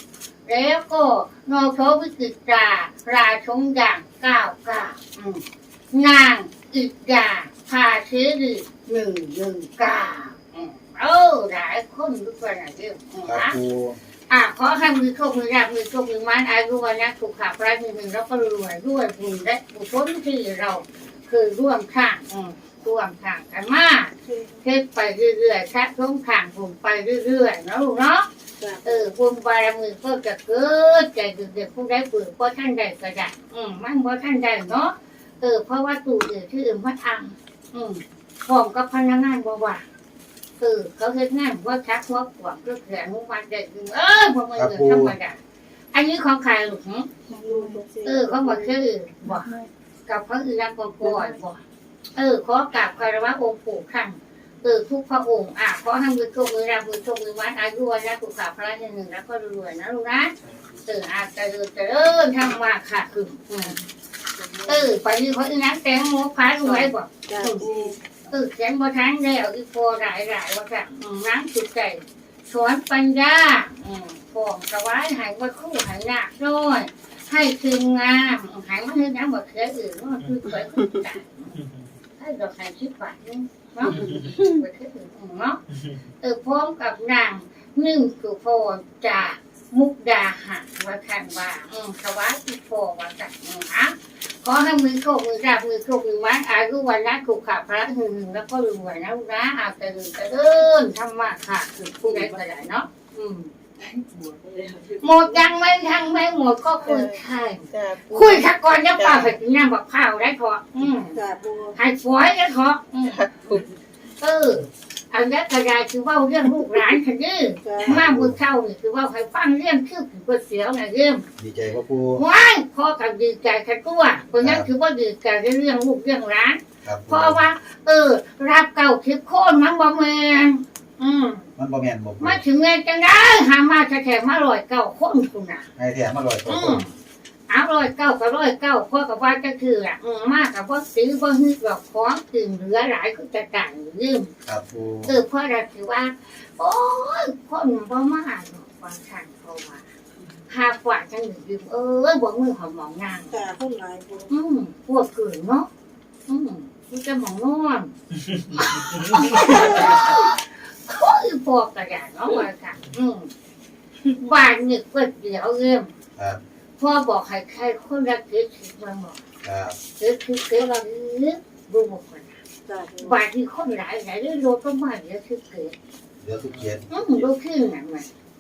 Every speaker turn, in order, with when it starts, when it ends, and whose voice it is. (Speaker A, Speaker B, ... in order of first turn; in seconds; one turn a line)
Speaker A: 0.5-13.6
Speaker B: 13.2-14.0
Speaker A: 14.3-24.1
Speaker C: 24.3-24.6
Speaker A: 24.6-28.3
Speaker C: 28.6-29.1
Speaker A: 28.8-39.9
Speaker A: 40.6-45.4
Speaker B: 44.6-45.1
Speaker A: 45.9-49.5
Speaker C: 47.3-48.7
Speaker A: 50.1-51.6
Speaker A: 52.2-60.3
Speaker A: 60.9-63.8
Speaker C: 64.4-64.9
Speaker A: 64.7-81.6
Speaker C: 66.6-68.0
Speaker A: 82.2-85.6
Speaker C: 84.0-84.4
Speaker A: 86.2-103.5
Speaker C: 102.1-102.4
Speaker C: 103.8-105.2
Speaker A: 105.0-111.2
Speaker C: 106.8-108.5
Speaker C: 109.0-109.3
Speaker C: 111.1-111.8
Speaker A: 111.8-113.2
Speaker C: 113.1-113.7
Speaker A: 114.2-121.3
Speaker C: 117.7-118.0
Speaker B: 117.8-118.4
Speaker B: 121.4-122.2
Speaker A: 122.2-131.5
Speaker B: 124.4-124.7
Speaker B: 126.8-127.4
Speaker B: 131.6-132.4
Speaker A: 132.2-135.7
Speaker B: 135.8-136.8
Speaker A: 136.5-136.9
Speaker A: 137.5-144.3
Speaker B: 144.4-145.1
Speaker A: 145.1-149.9
Speaker A: 150.5-153.4
Speaker C: 153.3-154.3
Speaker A: 154.3-155.7
Speaker A: 156.3-158.0
Speaker A: 158.5-163.3
Speaker A: 164.1-165.9
Speaker B: 166.2-166.4
Speaker A: 166.8-169.2
Speaker B: 169.4-169.8
Speaker A: 170.0-172.4
Speaker C: 172.7-173.2
Speaker A: 173.0-175.8
Speaker B: 176.2-177.2
Speaker A: 176.9-178.1